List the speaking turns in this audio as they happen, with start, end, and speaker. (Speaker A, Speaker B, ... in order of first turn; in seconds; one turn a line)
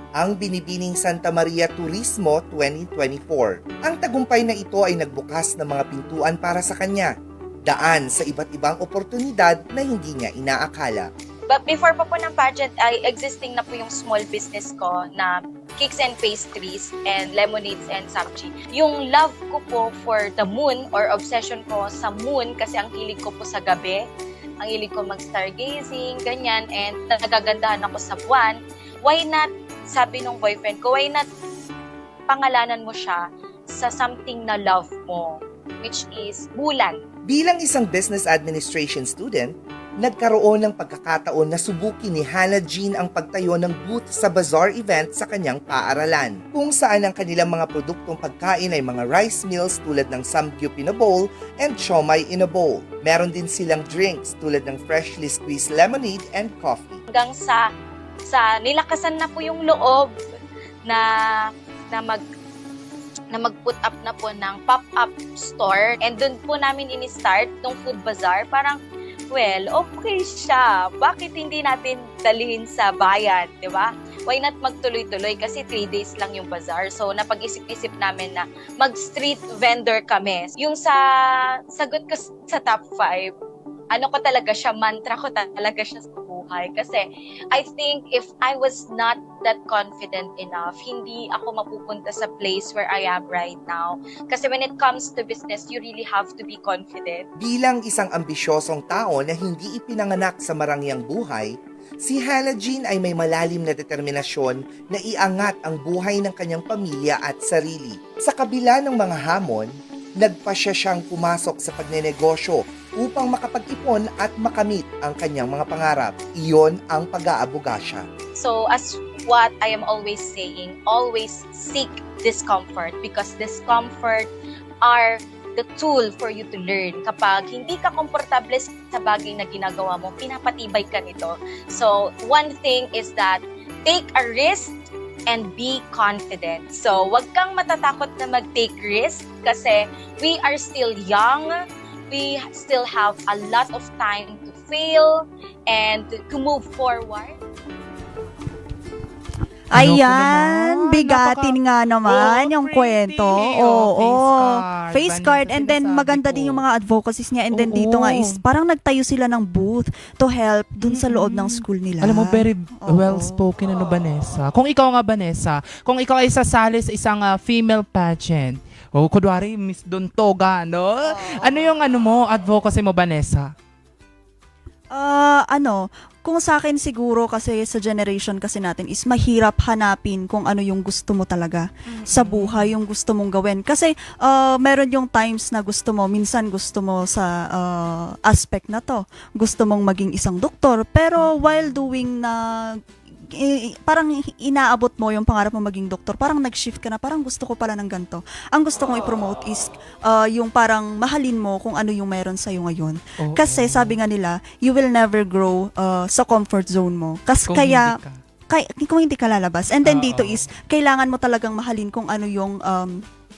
Speaker A: 0.2-7.1
Speaker A: 7.7-11.1
Speaker B: 11.5-24.0
Speaker B: 24.6-31.2
Speaker B: 32.3-37.0
Speaker A: 37.3-57.0
Speaker B: 57.1-57.6
Speaker B: 58.3-60.1
Speaker B: 60.8-62.2
Speaker B: 63.3-68.8
Speaker B: 69.3-83.3
Speaker B: 83.9-97.3
Speaker A: 97.4-118.0
Speaker B: 118.3-124.3
Speaker B: 124.8-141.5
Speaker B: 142.1-147.4
Speaker C: 149.7-163.4
Speaker D: 149.7-156.7
Speaker D: 157.5-158.4
Speaker D: 160.8-173.5
Speaker C: 171.1-171.7
Speaker C: 174.9-208.0
Speaker D: 181.9-182.7
Speaker D: 203.2-204.0
Speaker D: 207.5-208.2
Speaker C: 208.5-213.0
Speaker D: 209.8-210.5